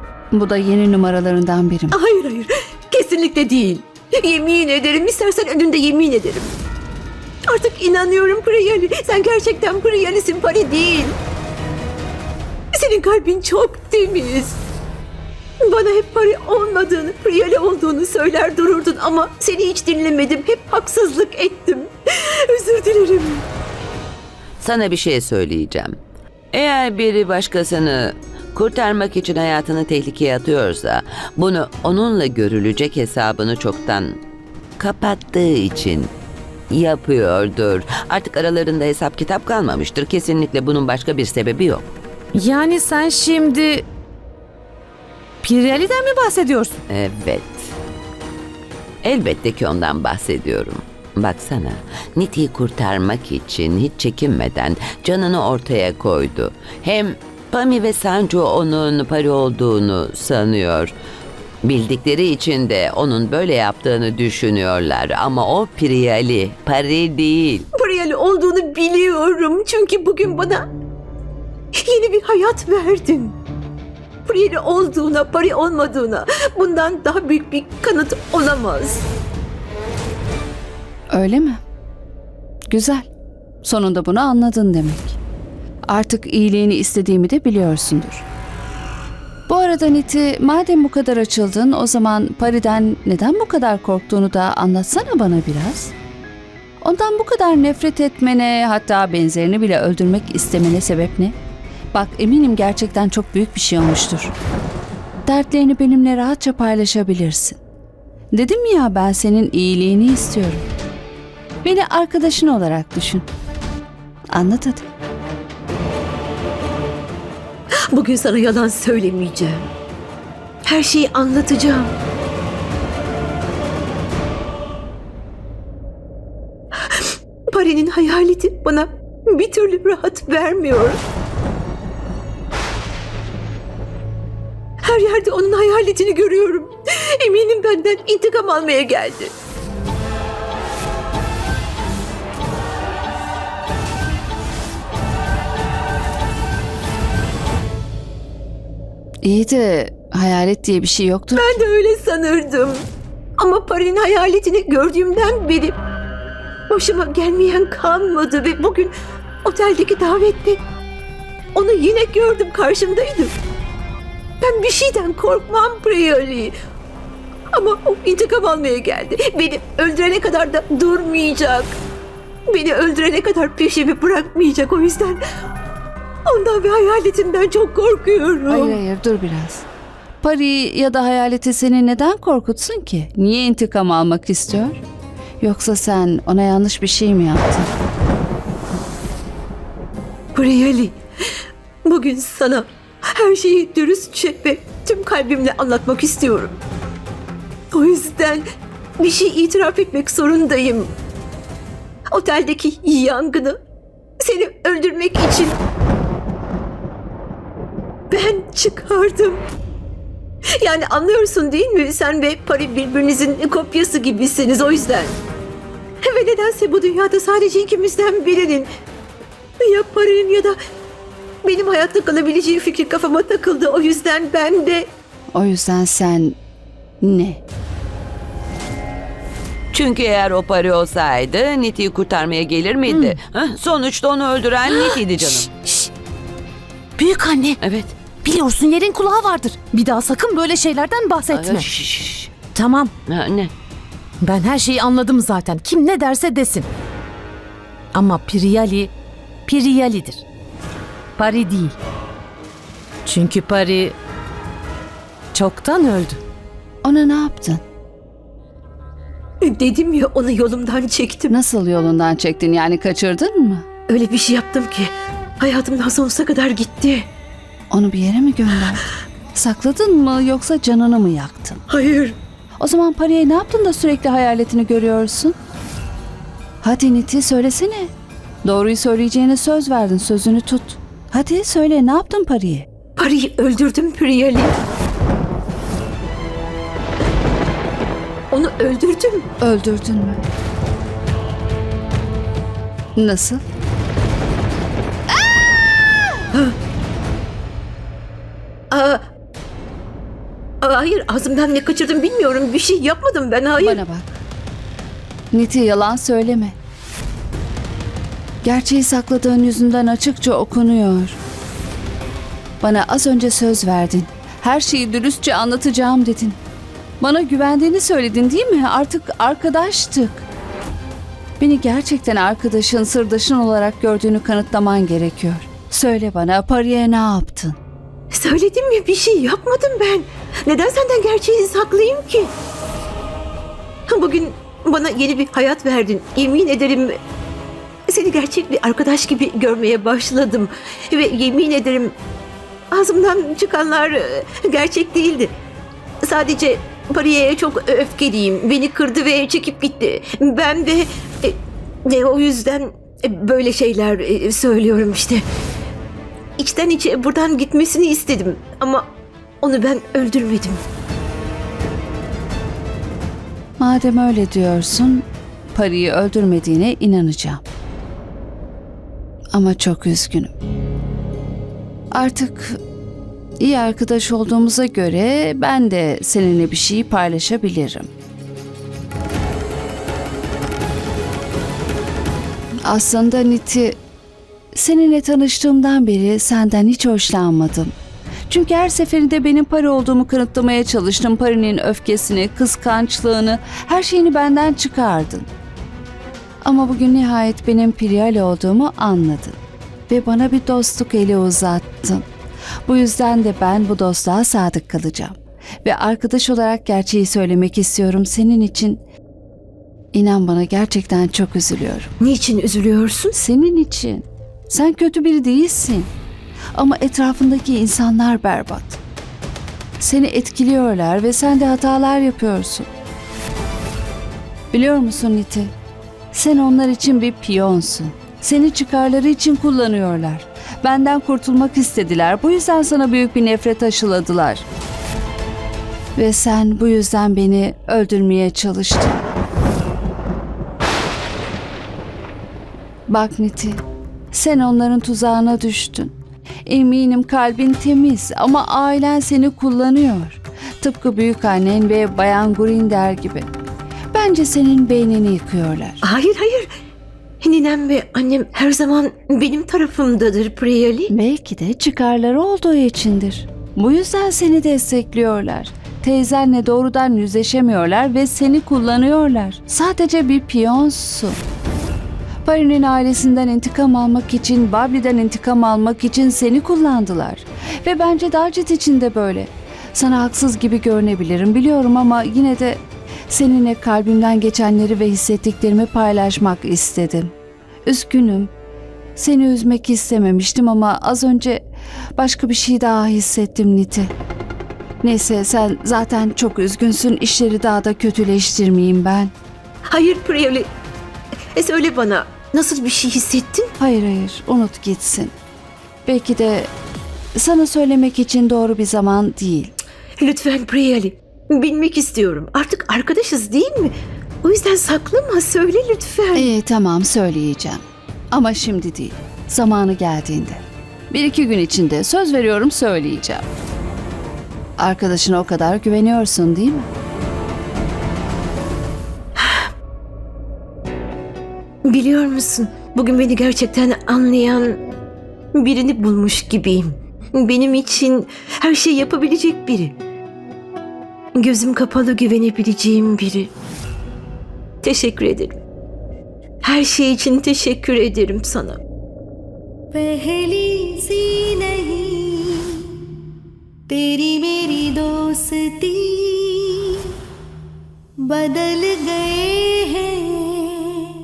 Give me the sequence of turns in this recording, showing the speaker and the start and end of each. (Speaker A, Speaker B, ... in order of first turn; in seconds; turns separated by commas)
Speaker A: 0.3-2.0, Speaker B: 1.9-6.6, Speaker B: 7.5-11.2, Speaker B: 12.7-14.6, Speaker B: 15.7-21.9, Speaker B: 22.5-23.4, Speaker C: 24.6-26.0, Speaker C: 26.5-34.2, Speaker C: 34.8-36.1, Speaker C: 36.7-41.9, Speaker D: 42.3-43.9, Speaker D: 45.4-46.8, Speaker C: 46.9-47.7, Speaker C: 49.0-60.9, Speaker C: 61.6-67.7, Speaker B: 67.8-70.7, Speaker B: 71.8-73.4, Speaker B: 74.3-79.0, Speaker A: 81.1-81.6, Speaker A: 82.7-83.1, Speaker A: 83.6-85.2, Speaker A: 85.9-88.2, Speaker A: 89.5-95.9, Speaker A: 96.8-101.4, Speaker A: 101.9-104.3, Speaker A: 105.3-107.6, Speaker A: 108.3-110.7, Speaker A: 111.6-113.3, Speaker A: 114.3-114.9, Speaker B: 117.9-119.7, Speaker B: 120.7-121.9, Speaker B: 126.8-131.0, Speaker B: 134.8-139.3, Speaker A: 149.2-151.6, Speaker B: 151.4-152.8, Speaker B: 153.4-155.8, Speaker B: 156.7-158.9, Speaker B: 159.4-160.6, Speaker B: 161.5-163.3, Speaker B: 164.4-166.5, Speaker B: 167.5-171.8, Speaker B: 172.5-175.2, Speaker B: 176.3-178.8, Speaker A: 178.5-179.7, Speaker A: 180.2-184.8, Speaker A: 185.4-187.7, Speaker B: 190.3-191.0, Speaker B: 191.8-196.6, Speaker B: 197.7-198.4, Speaker B: 199.0-200.9, Speaker B: 202.1-203.6, Speaker B: 204.2-205.6, Speaker B: 208.1-209.4, Speaker B: 210.6-215.2, Speaker B: 216.0-218.7, Speaker B: 219.6-220.6, Speaker B: 221.4-224.9, Speaker A: 225.3-226.4, Speaker A: 227.0-227.4, Speaker C: 229.7-235.5, Speaker D: 232.9-233.2, Speaker D: 234.7-235.9, Speaker D: 237.0-237.6, Speaker C: 237.6-238.0, Speaker D: 238.2-241.7, Speaker C: 241.3-242.3, Speaker D: 242.5-242.9, Speaker C: 243.1-243.5, Speaker D: 244.2-246.7, Speaker D: 247.9-248.9, Speaker D: 249.5-250.2, Speaker D: 251.2-251.8, Speaker D: 253.1-254.0, Speaker D: 255.3-256.2, Speaker A: 256.8-257.6, Speaker B: 259.4-261.3, Speaker A: 261.3-263.6, Speaker B: 263.9-267.1, Speaker A: 267.7-271.6, Speaker B: 271.7-272.2, Speaker A: 272.6-275.4, Speaker A: 276.6-277.9, Speaker A: 278.4-282.7, Speaker B: 283.0-284.6, Speaker B: 288.3-289.3, Speaker A: 289.4-290.2, Speaker A: 293.0-293.4, Speaker B: 298.7-299.0, Speaker B: 300.6-303.8, Speaker A: 303.6-304.1, Speaker A: 305.3-306.6, Speaker A: 308.4-311.2, Speaker A: 312.6-316.4, Speaker A: 317.0-320.2, Speaker A: 321.4-327.6, Speaker B: 328.1-332.3, Speaker B: 333.9-337.0, Speaker B: 337.9-341.9, Speaker B: 342.7-345.3, Speaker B: 346.0-355.2, Speaker B: 356.4-358.9, Speaker B: 359.4-360.6, Speaker A: 363.6-367.4, Speaker A: 369.3-370.3, Speaker A: 371.9-372.6, Speaker A: 373.4-377.9, Speaker A: 382.7-383.8, Speaker A: 384.5-387.7, Speaker A: 388.3-395.3, Speaker A: 396.4-402.1, Speaker A: 402.7-408.8, Speaker A: 409.9-411.9, Speaker B: 412.0-413.2, Speaker A: 413.1-415.9, Speaker A: 416.6-418.8, Speaker A: 419.8-422.7, Speaker A: 424.5-425.5, Speaker A: 426.1-434.4, Speaker A: 436.0-439.0, Speaker A: 442.9-445.9, Speaker A: 446.5-453.3, Speaker A: 453.9-455.8, Speaker B: 455.8-456.5, Speaker B: 457.2-460.9, Speaker A: 460.9-471.2, Speaker A: 472.2-487.1, Speaker A: 487.7-488.3, Speaker A: 489.0-491.4, Speaker A: 492.0-493.9, Speaker A: 494.8-499.1, Speaker B: 499.7-500.5, Speaker B: 501.4-503.5, Speaker A: 503.6-505.1, Speaker A: 505.9-506.5, Speaker A: 507.2-509.5, Speaker B: 510.0-516.3, Speaker A: 516.1-523.3, Speaker A: 524.6-526.7, Speaker B: 529.2-529.5, Speaker B: 531.6-534.6, Speaker B: 535.3-539.8, Speaker B: 541.1-543.3, Speaker B: 544.6-545.4, Speaker B: 546.4-548.6, Speaker E: 549.8-552.2, Speaker E: 553.7-556.3, Speaker E: 558.2-560.0